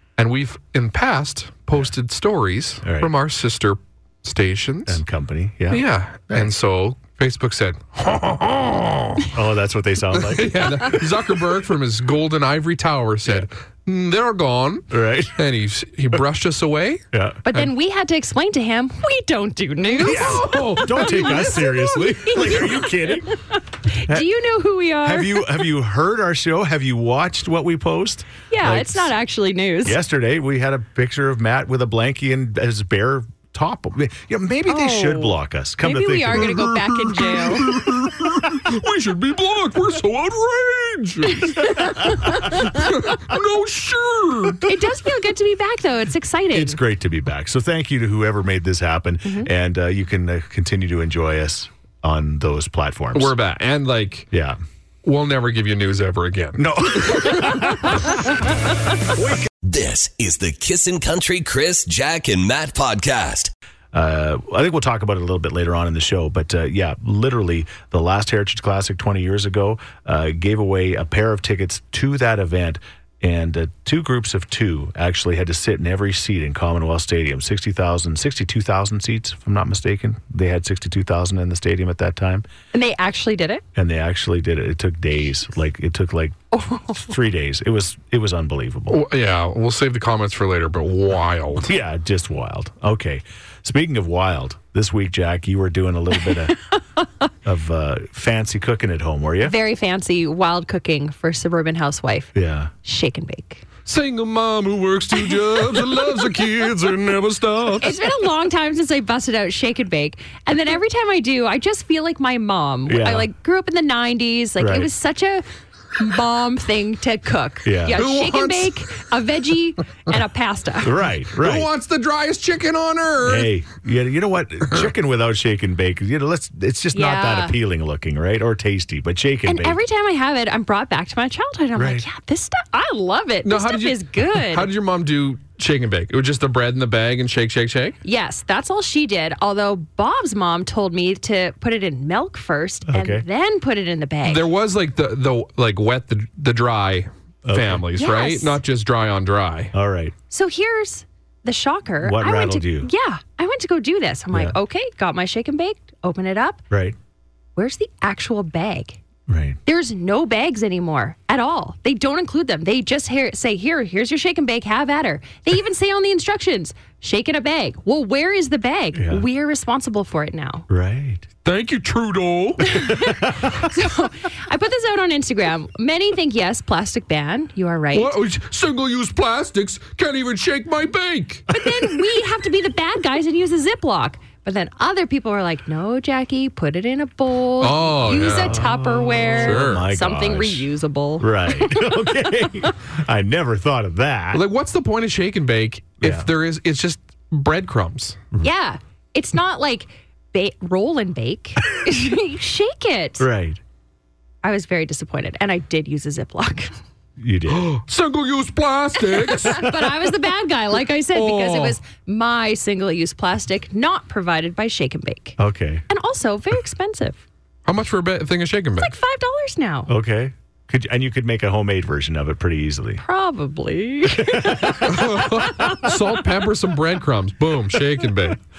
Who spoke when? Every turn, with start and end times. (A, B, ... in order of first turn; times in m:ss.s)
0:00.2-0:05.0 A
0:02.8-0:03.1 B
0:04.9-0:06.5 B
0:05.7-0:09.3 A
0:09.3-0:11.2 B
0:10.1-0:17.7 A
0:14.9-0:15.4 B
0:17.1-0:17.4 B
0:17.4-0:23.1 C
0:19.9-0:21.6 A
0:20.0-0:23.4 B
0:23.9-0:25.7 C
0:25.0-0:29.1 B
0:28.5-0:30.0 C
0:29.8-0:36.6 B
0:34.7-0:37.7 C
0:36.3-0:44.7 A
0:41.3-0:42.9 C
0:44.6-0:46.8 C
0:46.5-0:53.4 B
0:53.1-0:54.3 A
0:54.3-0:54.6 B
0:55.0-0:58.0 A
0:56.6-0:58.5 B
0:59.1-0:59.5 B
0:59.6-1:03.5 D
1:03.9-1:22.4 B
1:22.7-1:23.6 C
1:23.8-1:29.0 B
1:26.5-1:27.0 C
1:28.9-1:31.7 A
1:31.6-1:36.6 B
1:37.4-1:39.6 B
1:39.4-1:43.6 C
1:42.4-1:42.7 B
1:43.9-1:48.0 A
1:47.8-1:55.4 C
1:52.9-1:53.3 B
1:54.6-1:54.9 B
1:56.0-2:01.0 C
1:57.6-1:58.0 B
1:58.0-1:58.9 A
2:00.8-2:01.7 B
2:01.4-2:03.5 A
2:03.2-2:09.8 B
2:06.9-2:07.6 C
2:09.5-2:14.7 C
2:11.8-2:12.1 B
2:13.4-2:18.0 A
2:18.0-2:24.5 C
2:22.9-2:23.2 B
2:24.2-2:29.7 A
2:27.4-2:27.9 B
2:28.0-2:28.6 C
2:29.7-2:30.1 B
2:30.3-2:36.6 C
2:32.0-2:32.9 B
2:36.7-2:37.0 B
2:37.6-2:39.0 C
2:39.3-2:39.6 B
2:39.7-2:50.7 C
2:49.0-2:49.2 B
2:50.7-2:51.3 B
2:51.4-2:53.2 A
2:52.7-2:58.2 C
2:57.9-3:01.5 A
3:01.5-3:12.7 C
3:07.6-3:08.7 A
3:08.2-3:10.7 B
3:09.2-3:09.9 A
3:11.2-3:14.4 B
3:14.3-3:18.2 A
3:16.0-3:16.3 B
3:18.4-3:23.3 C
3:23.2-3:23.6 B
3:24.4-3:26.7 C
3:27.2-3:27.7 B
3:27.5-3:29.6 A
3:29.0-3:35.4 C
3:29.5-3:29.9 B
3:31.1-3:31.8 A
3:35.4-3:35.8 B
3:35.9-3:37.2 C
3:37.7-3:39.0 A
3:38.8-3:39.9 C
3:39.9-3:43.0 B
3:43.0-3:45.8 C
3:44.1-3:44.9 B
3:44.8-3:48.4 A